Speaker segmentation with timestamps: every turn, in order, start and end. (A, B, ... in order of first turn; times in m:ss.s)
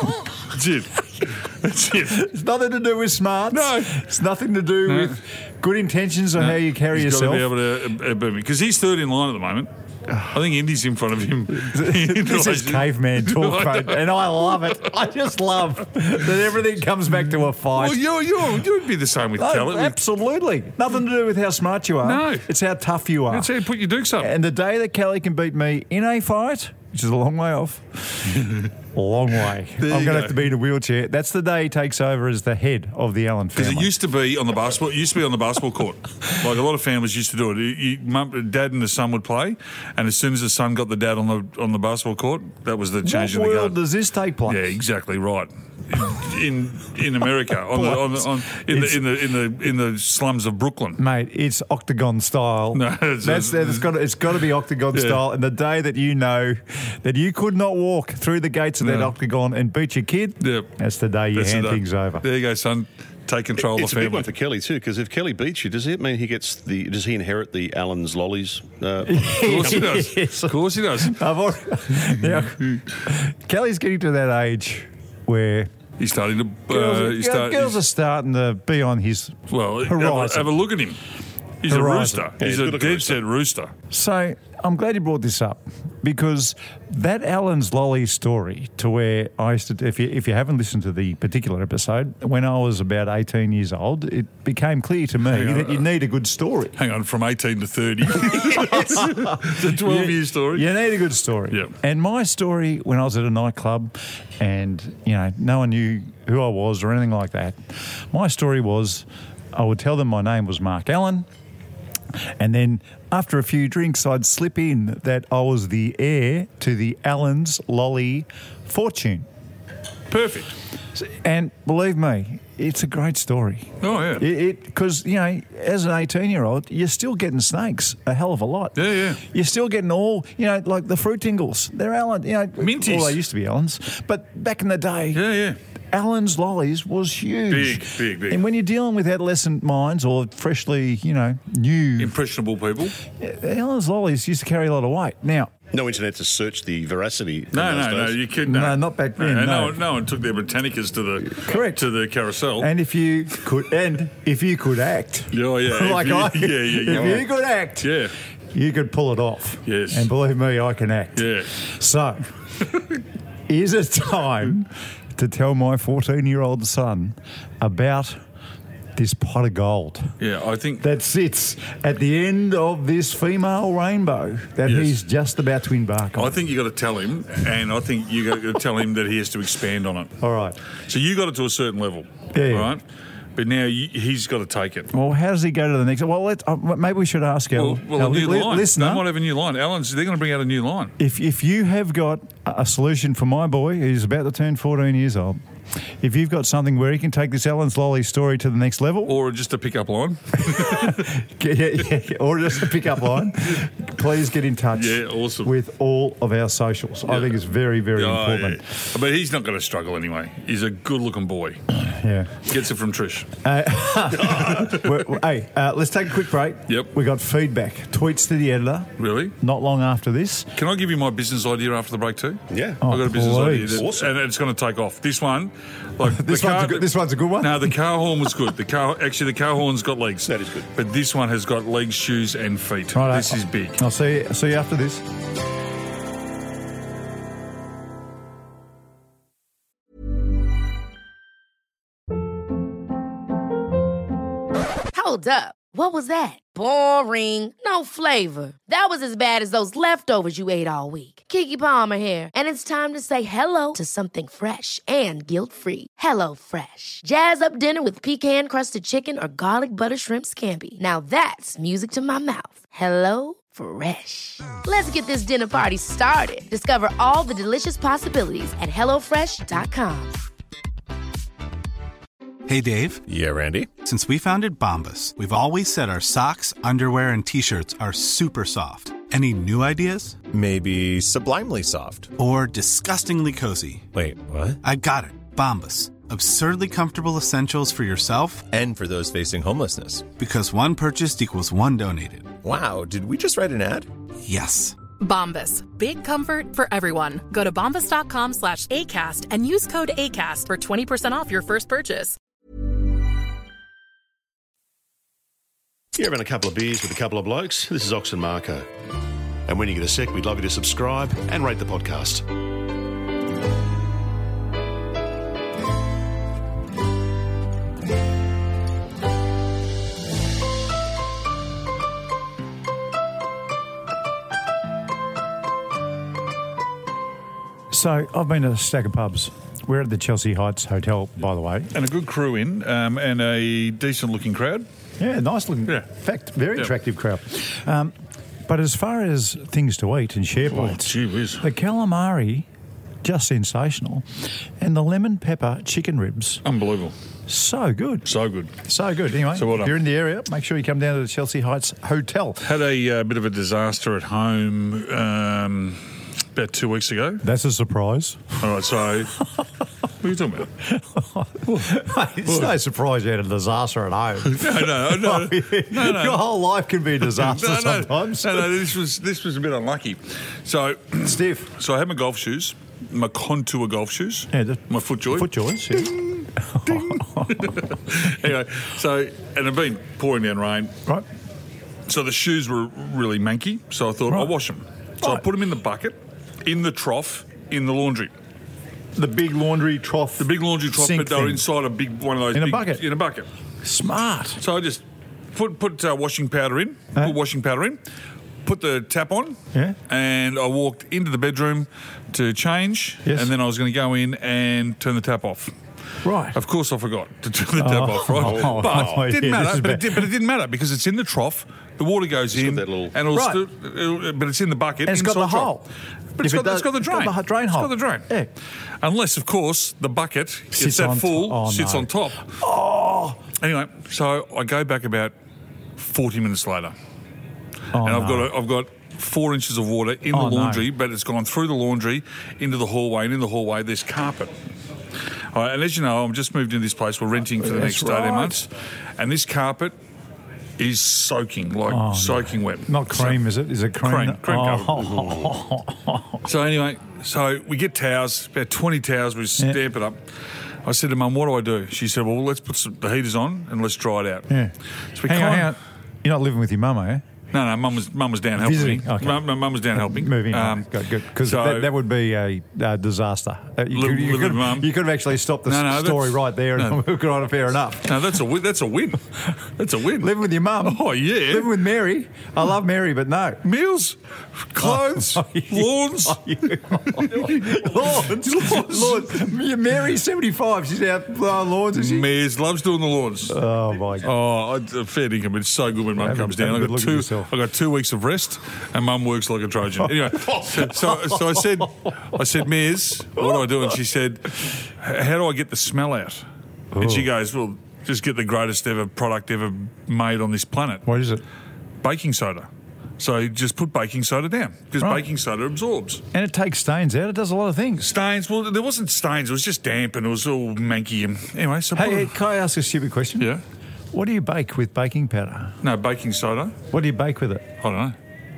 0:00.5-0:02.3 A
0:02.1-0:07.5 B
0:03.5-0:04.0 A
0:04.8-0:05.2 A
0:06.4-0:14.7 A
0:11.5-0:18.0 B
0:17.6-0:20.0 A
0:19.4-0:23.5 B
0:22.0-0:22.5 A
0:23.3-0:24.3 A
0:24.2-0:33.9 B
0:28.3-0:28.7 A
0:29.8-0:30.5 A
0:33.6-0:43.8 A
0:43.0-0:44.6 B
0:44.4-0:51.0 A
0:47.7-0:49.0 B
0:51.0-1:02.2 B
0:52.7-0:53.9 A
0:54.9-0:55.2 A
0:58.8-0:59.1 A
1:00.4-1:00.7 A
1:01.3-1:04.3 A
1:03.7-1:09.9 C
1:09.0-1:15.7 B
1:09.4-1:11.2 A
1:11.9-1:12.8 A
1:16.0-1:17.8 A
1:16.7-1:20.6 B
1:19.5-1:21.0 A
1:21.6-1:23.7 A
1:21.6-1:22.3 B
1:22.4-1:23.2 C
1:23.9-1:36.8 B
1:35.3-1:35.9 A
1:36.8-1:40.7 A
1:38.2-1:47.6 B
1:48.1-1:51.3 B
1:52.4-1:59.3 B
2:00.1-2:00.5 A
2:01.0-2:15.2 B
2:03.8-2:04.3 A
2:08.8-2:09.2 A
2:12.6-2:13.2 A
2:15.1-2:15.6 A
2:15.9-2:22.1 B
2:17.5-2:18.4 A
2:22.0-2:23.0 A
2:23.2-2:25.5 B
2:25.7-2:28.2 C
2:27.5-2:32.7 A
2:28.4-2:29.8 B
2:31.3-2:31.9 B
2:32.6-2:38.0 B
2:35.3-2:38.1 A
2:38.5-2:42.3 B
2:39.6-2:40.1 A
2:41.2-2:41.5 A
2:43.5-2:48.2 B
2:49.0-2:50.1 B
2:50.2-2:50.8 A
2:50.8-2:56.4 B
2:54.6-2:55.0 A
2:56.2-3:00.1 A
3:00.2-3:00.6 B
3:00.9-3:02.8 A
3:02.3-3:02.7 B
3:03.4-3:04.9 A
3:04.9-3:09.1 B
3:07.5-3:10.9 A
3:11.0-3:15.4 B
3:16.0-3:19.1 B
3:19.1-3:21.1 A
3:20.4-3:28.6 B
3:24.7-3:25.5 A
3:27.1-3:27.4 A
3:27.9-3:31.6 A
3:31.8-3:32.4 B
3:32.4-3:33.3 A
3:33.4-3:40.5 B
3:34.4-3:35.0 A
3:39.0-3:39.3 A
3:40.6-3:46.9 A
3:42.5-3:42.8 C
3:42.8-3:43.8 B
3:43.7-3:44.1 C
3:46.0-3:47.7 B
3:47.4-3:53.8 A
3:50.3-3:50.6 C
3:52.9-3:55.0 B
4:04.9-4:30.2 D
4:32.5-4:33.0 E
4:33.1-4:33.7 F
4:33.8-4:40.2 E
4:40.3-4:42.1 F
4:42.2-4:43.9 E
4:43.9-4:44.6 F
4:44.6-4:48.5 E
4:48.5-4:50.1 F
4:50.1-4:52.4 E
4:52.4-4:53.9 F
4:54.2-4:54.8 E
4:55.0-5:02.2 G
5:05.9-5:08.6 C
5:09.5-5:12.2 C
5:27.7-5:31.7 B
5:31.7-5:34.6 A
5:35.0-5:37.9 B
5:38.4-5:42.5 B
5:40.5-5:41.4 A
5:43.0-5:44.0 B
5:44.6-5:46.4 B
5:46.4-5:46.9 A
5:47.3-5:48.1 B
5:48.0-5:48.5 A
5:48.6-5:52.4 B
5:49.3-5:49.8 A
5:52.4-5:55.8 A
5:56.3-5:57.2 A
5:57.2-5:58.3 B
5:58.4-5:59.2 A
6:00.0-6:00.5 A
6:00.7-6:08.5 B
6:01.4-6:02.5 A
6:04.2-6:06.3 A
6:07.0-6:20.7 A
6:11.0-6:11.5 B
6:14.3-6:16.0 B
6:16.5-6:17.5 B
6:21.9-6:28.1 A
6:29.0-6:31.4 B
6:30.2-6:33.3 A
6:32.3-6:32.8 B
6:33.6-6:34.4 B
6:34.4-6:37.8 A
6:38.4-6:45.5 A
6:43.0-6:43.3 B
6:46.0-6:46.4 B
6:46.3-6:55.5 A
6:47.6-6:50.1 B
6:48.1-6:49.0 C
6:52.3-6:52.9 C
6:53.1-6:53.4 B
6:54.8-6:55.7 B
6:56.2-6:58.1 A
6:56.2-6:58.3 B
6:58.8-7:02.3 A
7:00.5-7:03.2 B
7:03.4-7:05.1 A
7:05.8-7:06.7 A
7:07.7-7:08.3 B
7:07.8-7:14.3 A
7:10.1-7:10.7 B
7:15.3-7:19.7 A
7:17.4-7:18.5 B
7:20.6-7:23.2 A
7:21.7-7:26.2 B
7:23.8-7:24.8 A
7:26.2-7:30.0 A
7:30.6-7:34.3 A
7:34.3-7:34.5 B
7:34.9-7:35.5 A
7:35.1-7:37.0 B
7:37.3-7:41.7 A
7:38.4-7:48.0 B
7:43.7-7:44.7 A
7:45.4-7:46.8 A
7:47.8-7:51.6 A
7:50.0-7:53.4 B
7:53.4-7:59.3 A
7:54.6-8:02.1 B
8:01.7-8:03.4 A
8:03.3-8:04.1 B
8:04.0-8:16.2 A
8:06.0-8:07.3 B
8:10.3-8:10.9 B
8:16.7-8:17.1 B
8:16.8-8:20.8 A
8:20.8-8:21.2 B
8:21.8-8:22.5 A
8:23.0-8:26.0 A
8:26.1-8:27.9 B
8:27.8-8:32.1 A
8:31.7-8:33.3 B
8:33.9-8:35.6 B
8:35.6-8:36.6 A
8:36.7-8:37.5 B
8:37.6-8:38.0 A